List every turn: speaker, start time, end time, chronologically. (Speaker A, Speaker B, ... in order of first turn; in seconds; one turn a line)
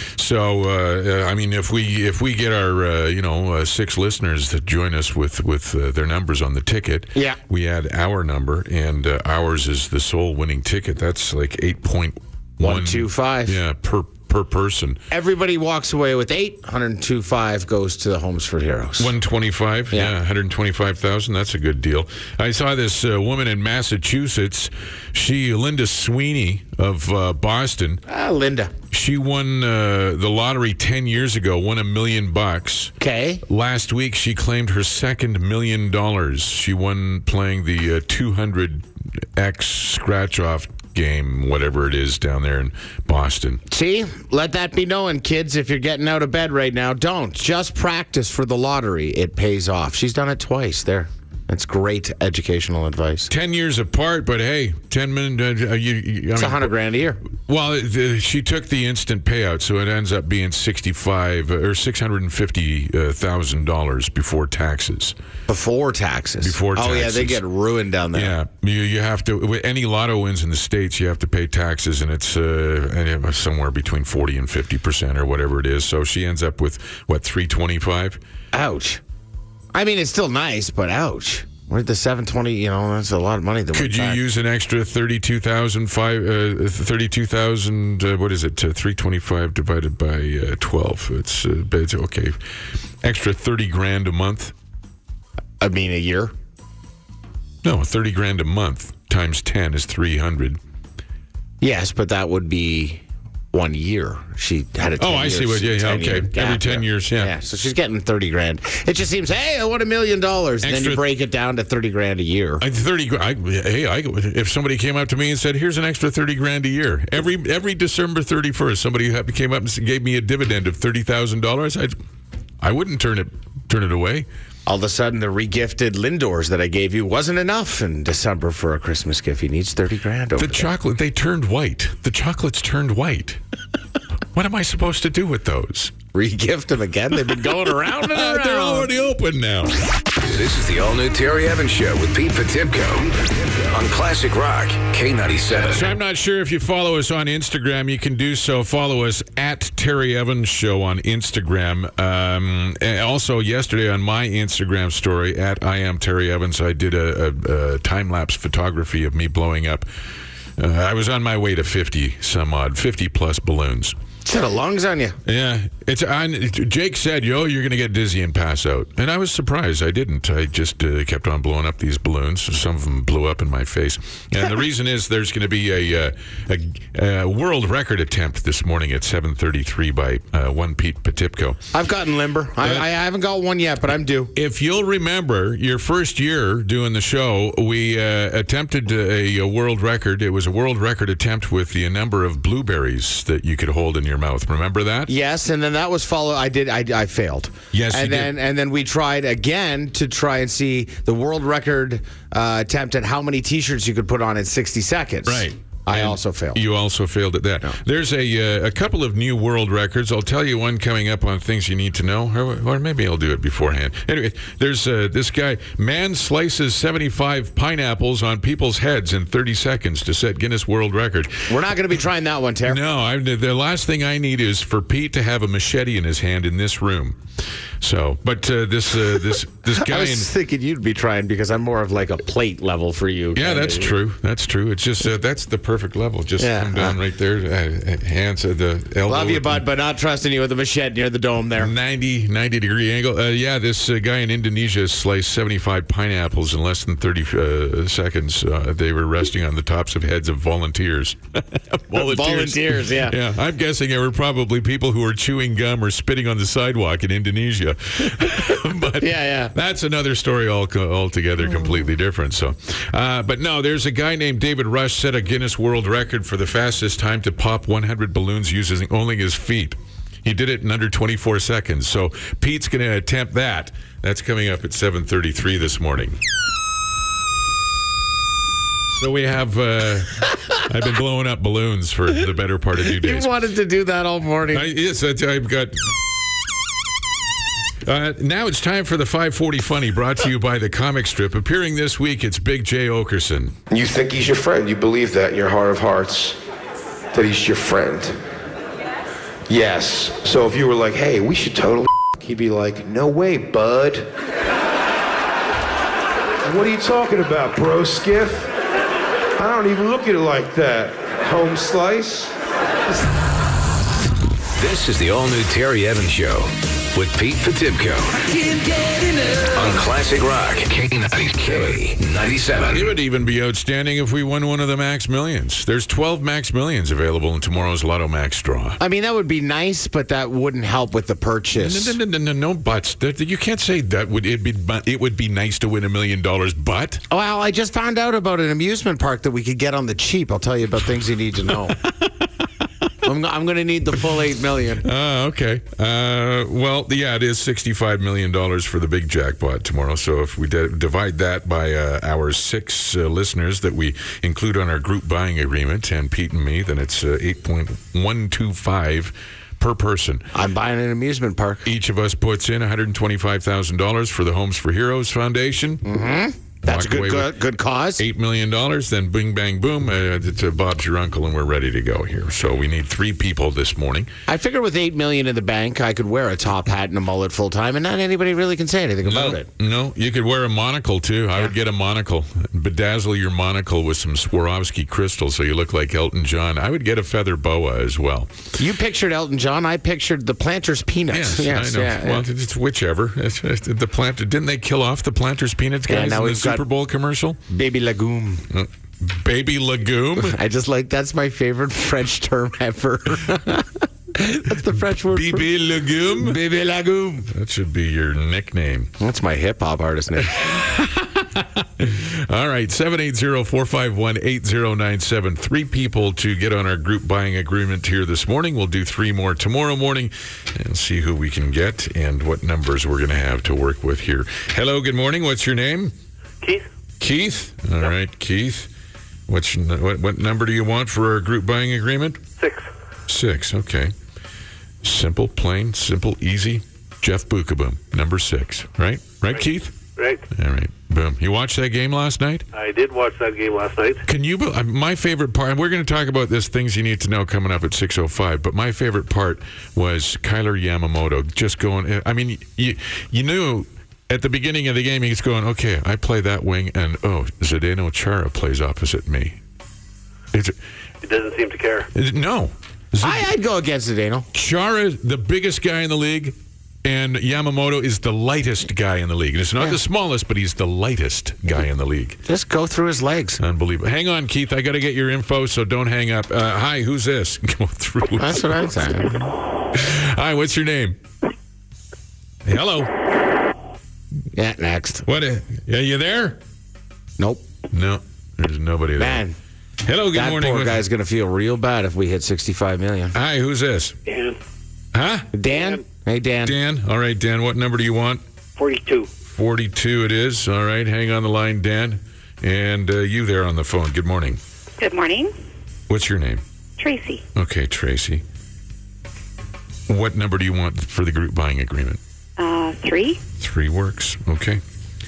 Speaker A: 0.2-15.0
Speaker B: 7.1-7.4
Speaker B: 12.6-13.6
Speaker B: 15.1-19.1
Speaker A: 19.0-28.0
Speaker B: 28.1-28.7
Speaker A: 28.9-32.9
Speaker B: 33.0-33.4
Speaker A: 33.5-38.9
Speaker A: 39.4-43.6
Speaker B: 43.7-53.3
Speaker A: 53.3-56.7
Speaker B: 56.4-57.2
Speaker A: 57.3-65.2
Speaker B: 65.5-68.4
Speaker A: 66.4-67.4
Speaker A: 68.1-78.2
Speaker B: 78.5-79.0
Speaker B: 79.7-84.2
Speaker A: 83.7-92.4
Speaker A: 93.0-94.5
Speaker B: 95.6-96.3
Speaker A: 97.6-100.6
Speaker B: 101.6-112.6
Speaker A: 105.0-107.3
Speaker A: 110.6-111.0
Speaker A: 112.6-122.0
Speaker A: 122.6-124.3
Speaker B: 124.7-130.7
Speaker A: 130.4-133.4
Speaker A: 134.3-135.9
Speaker B: 136.1-138.9
Speaker A: 138.0-139.8
Speaker C: 140.2-145.9
Speaker A: 145.7-159.9
Speaker A: 160.6-164.0
Speaker B: 164.2-165.2
Speaker A: 165.3-181.6
Speaker B: 181.7-184.3
Speaker A: 184.3-195.1
Speaker B: 195.1-206.6
Speaker A: 197.7-198.3
Speaker A: 205.3-221.5
Speaker B: 221.5-222.8
Speaker A: 222.7-227.2
Speaker A: 227.8-230.3
Speaker B: 229.7-233.9
Speaker A: 233.3-239.6
Speaker B: 236.4-237.0
Speaker B: 239.1-241.7
Speaker A: 241.6-276.2
Speaker B: 251.9-253.2
Speaker B: 258.9-259.6
Speaker A: 278.9-283.3
Speaker B: 282.9-284.7
Speaker A: 284.5-285.8
Speaker A: 287.9-293.6
Speaker D: 293.7-296.4
Speaker D: 297.1-298.2
Speaker D: 299.5-304.1
Speaker D: 306.4-308.5
Speaker D: 309.4-312.3
Speaker C: 314.6-318.4
Speaker C: 319.4-322.9
Speaker A: 322.7-328.8
Speaker B: 328.8-332.0
Speaker A: 331.6-337.0
Speaker B: 337.1-341.8
Speaker B: 343.0-344.9
Speaker A: 344.8-360.3
Speaker B: 360.3-361.7
Speaker A: 361.6-365.9
Speaker B: 365.8-368.0
Speaker A: 366.6-367.4
Speaker A: 368.0-374.1
Speaker B: 374.3-379.5
Speaker A: 379.0-388.5
Speaker B: 388.6-392.3
Speaker A: 391.1-397.4
Speaker B: 395.9-396.7
Speaker B: 397.5-398.5
Speaker A: 398.5-400.4
Speaker B: 400.2-405.5
Speaker A: 404.7-406.4
Speaker B: 406.1-407.3
Speaker A: 407.3-408.9
Speaker B: 409.0-410.6
Speaker A: 410.4-425.9
Speaker A: 427.0-428.7
Speaker A: 429.3-432.2
Speaker E: 432.4-432.6
Speaker A: 433.1-433.9
Speaker A: 434.8-439.8
Speaker A: 440.3-442.5
Speaker E: 442.5-444.0
Speaker A: 444.1-459.4
Speaker E: 461.0-461.9
Speaker A: 461.9-463.3
Speaker B: 463.0-464.3
Speaker A: 464.3-472.2
Speaker B: 472.2-473.4
Speaker A: 473.4-478.7
Speaker B: 478.2-479.3
Speaker A: 479.7-481.0
Speaker A: 482.4-482.9
Speaker B: 484.3-485.1
Speaker A: 485.1-486.4
Speaker B: 487.2-487.4
Speaker A: 487.7-489.2
Speaker B: 489.0-489.4
Speaker A: 489.8-490.8
Speaker B: 490.1-493.2
Speaker A: 493.1-494.0
Speaker E: 494.1-494.4
Speaker A: 494.9-495.3
Speaker B: 495.3-496.6
Speaker E: 495.5-495.8
Speaker A: 496.4-498.2
Speaker E: 498.6-499.1
Speaker A: 499.3-504.4
Speaker F: 504.8-505.3
Speaker A: 505.9-506.4
Speaker F: 506.8-507.2
Speaker A: 507.4-508.2
Speaker A: 509.9-512.0
Speaker F: 512.4-513.2
Speaker A: 513.4-514.6